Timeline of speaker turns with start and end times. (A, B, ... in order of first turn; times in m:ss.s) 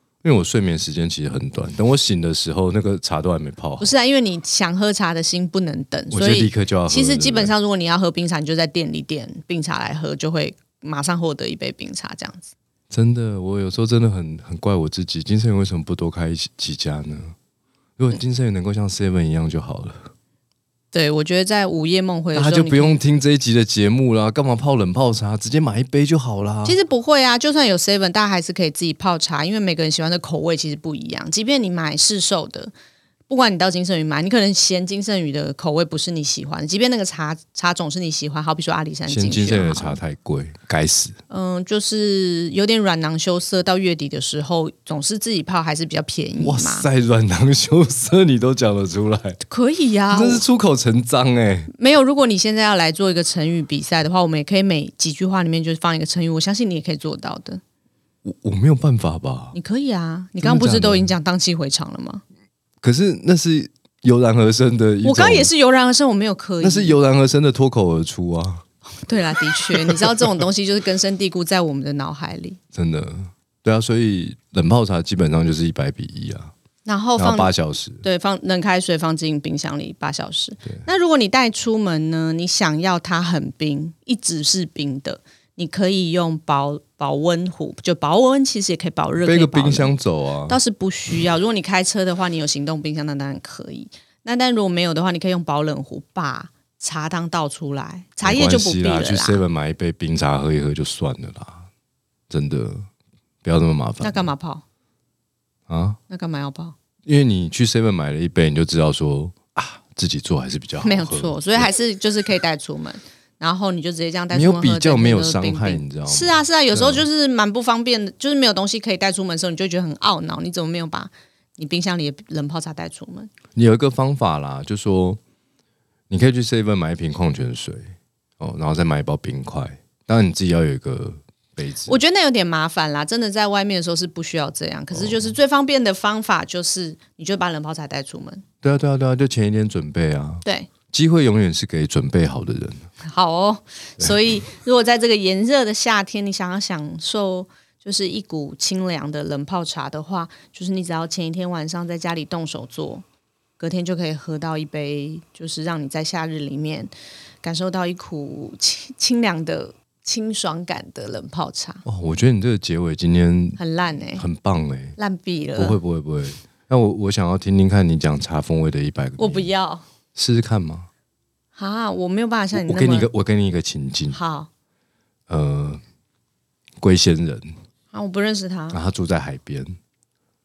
0:00.2-0:03.9 A
0:03.8-0:12.5 B
0:06.1-0:07.5 A
0:12.9-0:17.3 A
0:18.0-0:20.1 A
0:20.9-0:23.0 B
0:22.3-0:26.8 A
0:26.6-0:32.7 B
0:33.3-0:40.0 B
0:39.1-0:41.2 A
0:41.3-0:46.9 B
0:46.4-0:49.4 A
0:49.5-0:50.4 B
0:50.1-0:51.7 A
0:51.7-0:57.6 B
0:58.2-0:59.6 A
0:59.5-1:02.2 B
1:00.4-1:01.1 A
1:02.8-1:05.5 A
1:05.0-1:07.0 B
1:06.6-1:08.6 A
1:09.0-1:12.6 B
1:09.7-1:10.0 A
1:12.7-1:16.5 A
1:16.8-1:29.9 B
1:17.2-1:18.0 A
1:29.2-1:30.6 A
1:30.5-1:39.4 B
1:38.2-1:41.7 A
1:42.3-1:42.8 A
1:43.4-1:44.3 A
1:44.0-1:44.6 B
1:45.7-1:46.0 A
1:46.1-1:46.7 B
1:47.0-1:51.7 A
1:50.8-2:03.3 B
1:54.3-1:57.0 A
2:03.5-2:05.2 A
2:06.1-2:12.0 A
2:11.8-2:18.4 B
2:14.9-2:15.2 A
2:18.6-2:22.9 A
2:20.4-2:20.7 B
2:23.0-2:33.0 B
2:33.6-2:36.9 B
2:37.4-2:41.8 B
2:41.8-2:43.6 A
2:43.6-2:44.2 B
2:44.2-2:45.0 A
2:45.0-2:45.8 B
2:45.6-2:49.5 A
2:49.2-2:49.8 B
2:50.1-2:50.9 A
2:51.5-2:53.1 B
2:52.5-2:54.2 A
2:54.1-2:54.5 B
2:55.3-2:55.8 A
2:56.8-2:57.5 A
2:57.9-2:58.8 B
2:58.7-2:59.8 A